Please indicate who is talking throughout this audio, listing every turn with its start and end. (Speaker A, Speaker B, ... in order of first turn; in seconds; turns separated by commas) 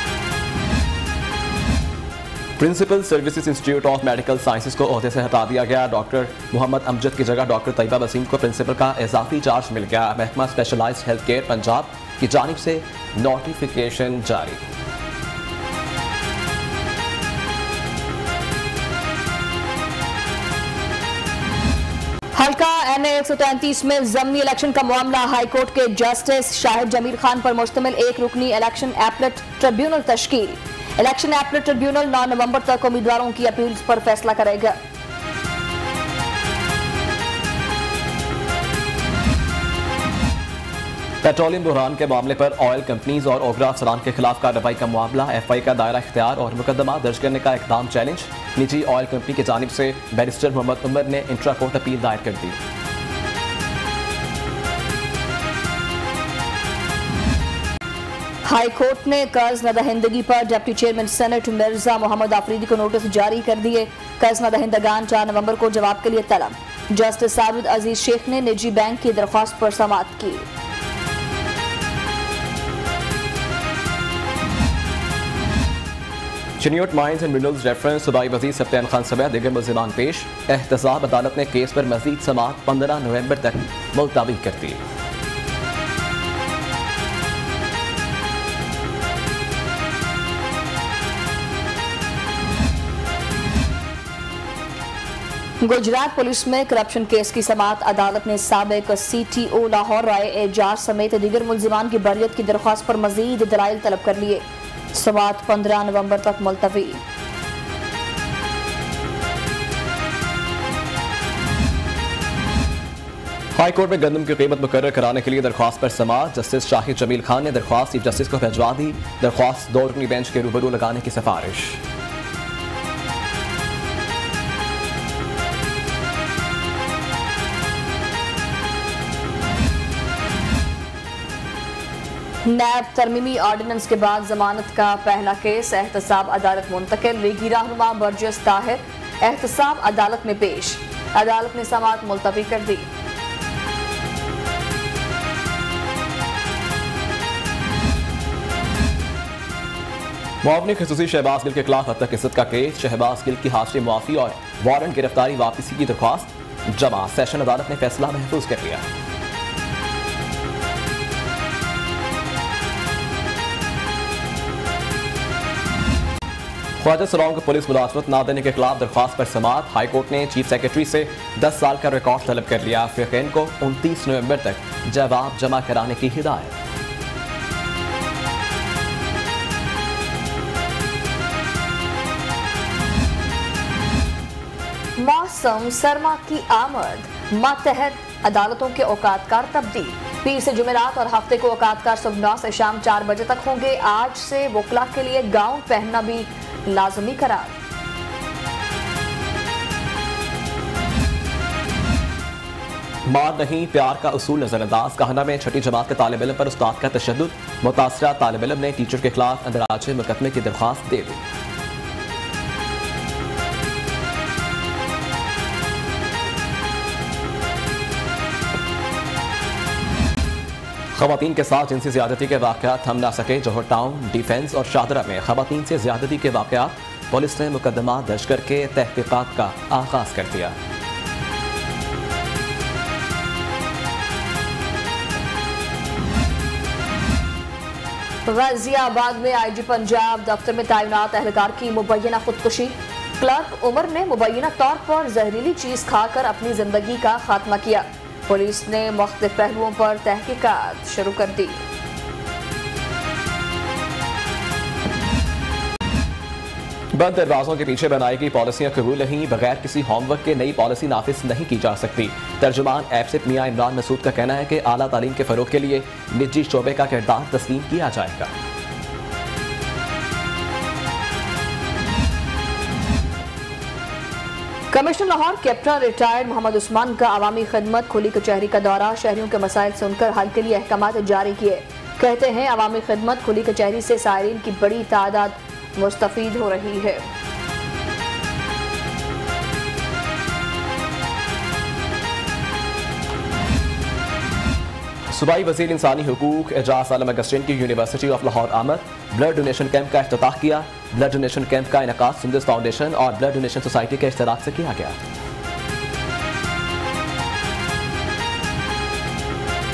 Speaker A: 2.6-14.6, Speaker B: 22.4-34.8, Speaker A: 41.2-52.6, Speaker B: 58.5-70.5, Speaker A: 76.6-84.8, Speaker B: 95.6-107.0, Speaker A: 113.5-121.8, Speaker B: 132.4-142.9, Speaker A: 150.4-158.8, Speaker A: 166.8-176.6, Speaker B: 185.0-197.5, Speaker A: 203.1-211.2, Speaker A: 220.9-230.6, Speaker B: 238.3-251.6, Speaker A: 256.9-268.3, Speaker B: 274.7-287.1, Speaker A: 295.1-305.0